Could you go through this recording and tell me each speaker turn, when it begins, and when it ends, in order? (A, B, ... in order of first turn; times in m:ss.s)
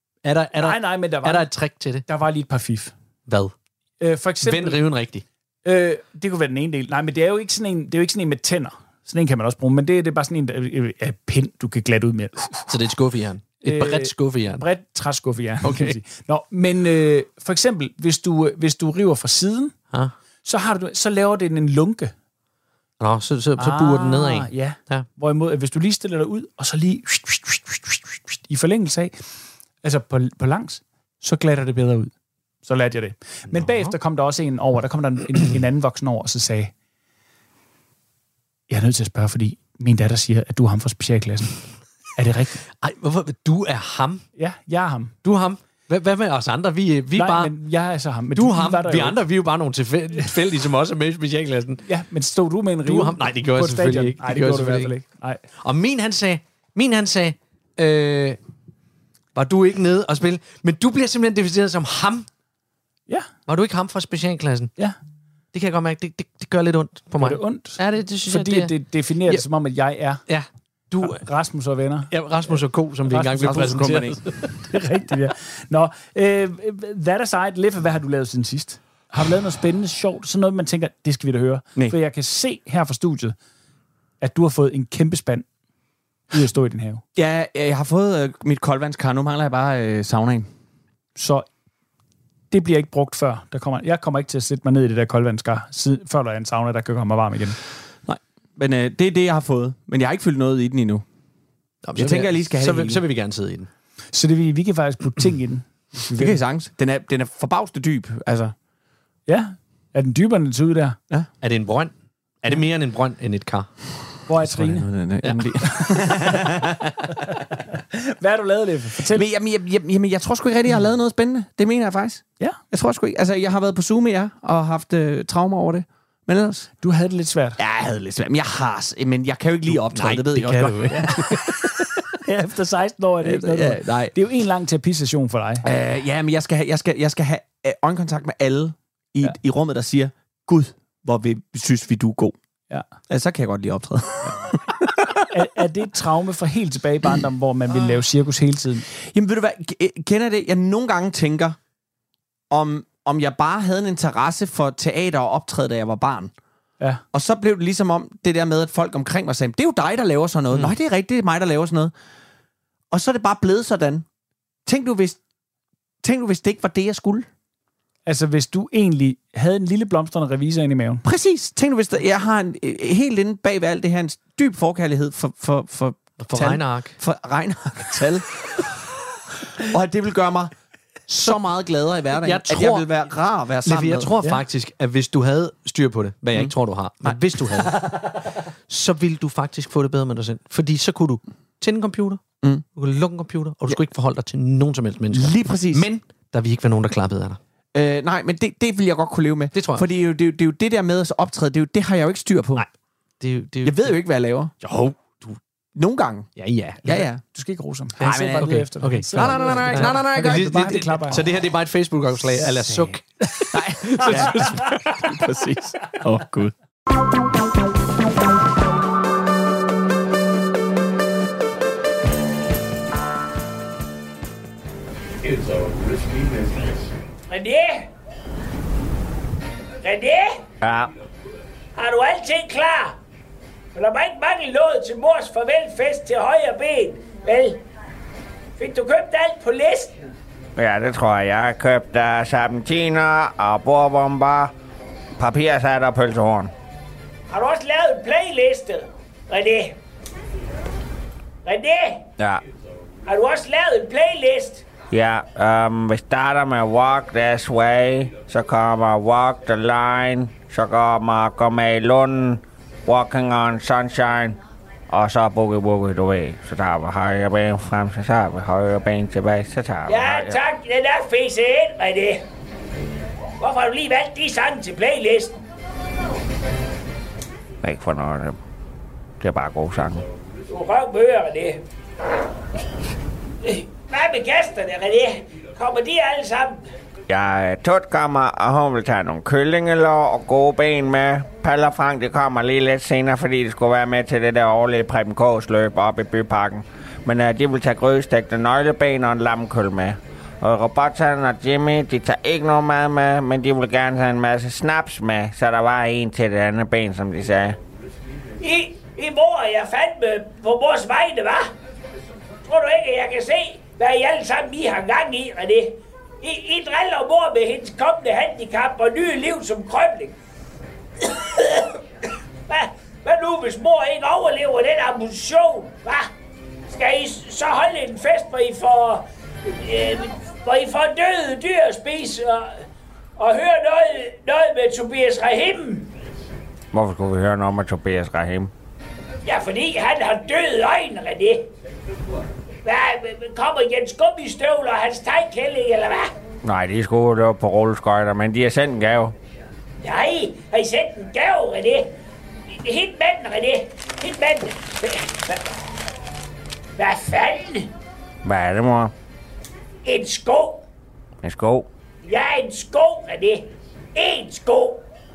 0:00.2-0:02.0 A
0:00.6-0:01.5 B
0:02.0-0:02.9 B
0:03.3-0:03.5 A
0:04.0-0:04.8 B
0:04.4-0:05.2 A
0:05.6-0:12.7 B
0:12.7-0:14.6 A
0:13.6-0:19.7 B
0:15.6-0:16.0 A
0:20.4-0:22.1 B
0:23.0-0:25.0 A
0:23.6-0:29.1 B
0:29.8-0:32.1 B
0:32.6-0:36.7 B
0:33.5-0:33.9 A
0:38.7-0:41.6 B
0:42.1-0:42.6 B
0:42.8-0:44.2 A
0:44.4-0:45.2 B
0:45.2-0:47.5 A
0:47.1-0:49.2 B
0:48.3-0:51.8 A
0:51.8-0:55.4 B
0:52.8-0:54.9 A
0:55.6-0:58.4 A
0:59.3-1:02.3 A
1:03.5-1:04.7 A
1:05.5-1:08.7 A
1:07.2-1:10.2 B
1:10.3-1:11.2 A
1:11.0-1:12.1 B
1:12.1-1:14.5 A
1:13.1-1:13.9 B
1:13.4-1:14.2 C
1:14.6-1:23.3 B
1:24.2-1:25.4 B
1:26.3-1:27.0 B
1:27.2-1:30.5 C
1:31.2-1:31.4 B
1:32.5-1:37.6 B
1:38.0-1:41.0 C
1:41.8-1:43.7 A
1:41.9-1:43.0 C
1:44.1-1:46.4 B
1:46.1-1:48.5 C
1:49.3-1:51.0 B
1:51.4-1:53.7 A
1:54.3-1:54.9 B
1:54.4-1:56.8 C
1:57.1-1:59.2 B
1:59.1-2:06.7 C
2:06.8-2:07.6 B
2:07.6-2:11.6 C
2:09.9-2:11.7 A
2:12.1-2:15.6 B
2:13.2-2:14.1 C
2:15.6-2:22.3 C
2:23.1-2:25.1 C
2:25.3-2:28.8 B
2:29.1-2:31.6 C
2:32.5-2:36.3 C
2:37.1-2:41.9 C
2:42.9-2:44.0 C
2:44.6-2:45.2 C
2:46.0-2:47.3 C
2:48.0-2:51.0 B
2:51.0-2:58.6 C
2:56.2-2:57.0 A
2:59.6-3:00.5 C
3:01.1-3:04.1 C
3:02.1-3:02.9 A
3:03.6-3:07.8 A
3:06.3-3:07.8 C
3:08.7-3:12.2 A
3:12.7-3:17.4 A
3:15.1-3:15.9 C
3:17.7-3:22.6 C
3:19.5-3:19.8 A
3:22.6-3:23.9 A
3:23.6-3:24.5 C
3:24.6-3:25.4 A
3:25.7-3:26.3 C
3:26.4-3:27.0 A
3:26.8-3:27.2 C
3:27.3-3:31.3 B
3:28.0-3:30.7 C
3:28.0-3:35.1 A
3:32.3-3:33.4 B
3:33.5-3:36.5 C
3:47.3-3:47.9 D
3:49.8-3:50.4 D
3:50.6-3:50.9 E
3:51.8-3:53.0 D
3:53.7-3:57.6 D
3:58.6-4:00.1 D
4:00.6-4:04.5 E
4:05.2-4:06.5 E
4:07.3-4:09.8 D
4:11.4-4:12.0 D
4:13.0-4:14.6 D
4:14.9-4:24.4 E
4:24.9-4:30.4 E
4:29.8-4:32.2 D
4:33.4-4:35.3 D
4:37.6-4:38.3 E
4:39.2-4:40.0 E
4:40.5-4:41.6 D
4:43.4-4:46.6 D
4:47.1-5:07.6 E
5:08.4-5:11.5 D
5:12.4-5:20.1 D
5:21.0-5:21.8 D
5:22.5-5:26.1 D
5:26.7-5:32.6 D
5:33.2-5:35.9 D
5:36.7-5:38.5 E
5:39.2-5:41.4 D
5:42.6-5:46.1 D
5:46.4-5:49.1 E
5:49.8-5:51.9 D
5:52.5-5:55.4 D
5:56.8-5:57.7 D
5:58.2-5:58.9 E
5:59.8-6:00.6 D
6:01.2-6:01.7 E
6:02.0-6:04.8 D